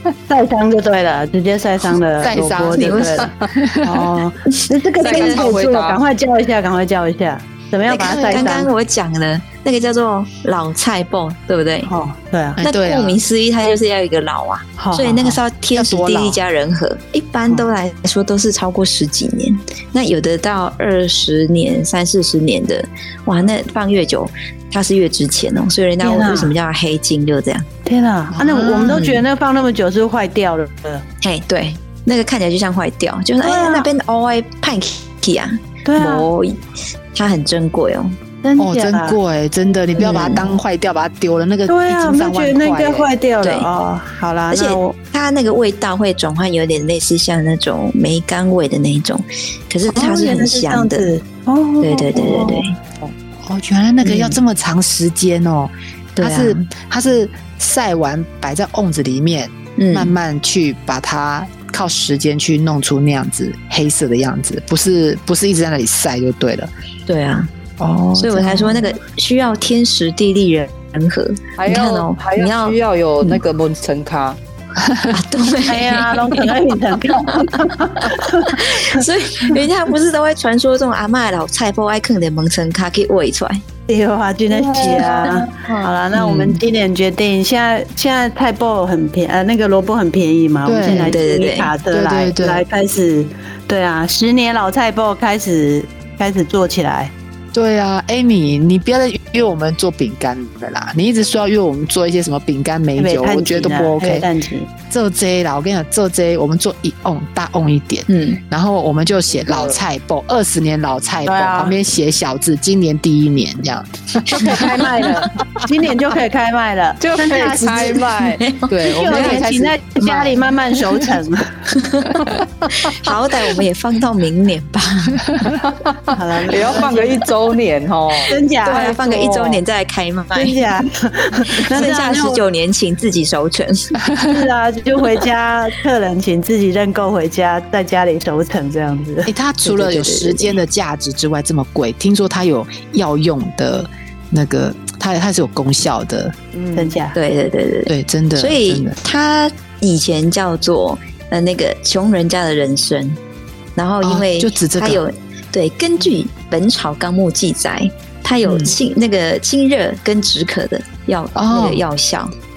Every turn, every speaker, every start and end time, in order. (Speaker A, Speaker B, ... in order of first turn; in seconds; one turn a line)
Speaker A: 0.3-8.7
Speaker B: 1.9-4.2
Speaker C: 2.8-3.3
Speaker C: 4.5-5.4
Speaker D: 5.0-6.0
Speaker C: 7.9-11.9
Speaker B: 8.0-8.7
Speaker A: 11.8-12.6
Speaker B: 12.6-13.2
Speaker C: 12.6-27.7
Speaker A: 14.8-15.4
Speaker B: 15.7-16.4
Speaker A: 26.0-26.6
Speaker A: 27.9-31.1
Speaker B: 28.3-29.2
Speaker C: 28.9-29.2
Speaker C: 31.2-36.6
Speaker A: 33.4-33.9
Speaker A: 35.9-36.3
Speaker C: 37.1-38.2
Speaker A: 38.4-39.2
Speaker B: 38.6-43.1
Speaker C: 40.0-40.5
Speaker A: 40.0-40.5
Speaker A: 41.7-45.0
Speaker C: 43.4-43.7
Speaker C: 44.5-51.1
Speaker A: 49.9-52.6
Speaker C: 51.8-52.8
Speaker B: 52.2-52.6
Speaker B: 53.4-66.7
Speaker C: 54.0-54.4
Speaker C: 56.2-56.7
Speaker C: 59.8-60.2
Speaker C: 67.1-72.8
Speaker B: 67.8-68.8
Speaker D: 71.6-74.4
Speaker B: 74.8-75.2
Speaker C: 75.1-83.6
Speaker A: 75.7-79.0
Speaker A: 83.9-97.1
Speaker B: 84.5-86.5
Speaker C: 86.2-86.5
Speaker B: 90.7-91.2
Speaker C: 90.8-91.7
Speaker B: 91.9-92.7
Speaker B: 97.5-104.3
Speaker A: 103.0-104.7
Speaker B: 104.9-114.8
Speaker C: 108.1-108.4
Speaker D: 109.3-109.8
Speaker A: 111.3-111.8
Speaker A: 114.3-118.0
Speaker D: 117.0-118.4
Speaker B: 117.3-118.0
Speaker C: 118.4-119.3
Speaker B: 118.7-120.5
Speaker A: 118.8-121.5
Speaker C: 121.8-122.2
Speaker C: 122.8-125.2
Speaker B: 125.3-125.6
Speaker D: 125.6-129.6
Speaker A: 126.1-127.2
Speaker A: 128.3-129.0
Speaker C: 128.6-130.7
Speaker A: 130.3-132.4
Speaker C: 131.6-134.0
Speaker A: 134.3-139.3
Speaker B: 139.3-146.3
Speaker C: 139.6-140.6
Speaker D: 146.5-147.0
Speaker A: 146.8-147.2
Speaker C: 147.1-153.2
Speaker B: 147.9-149.0
Speaker C: 153.8-162.3
Speaker B: 154.0-155.0
Speaker B: 158.4-158.8
Speaker B: 161.3-161.8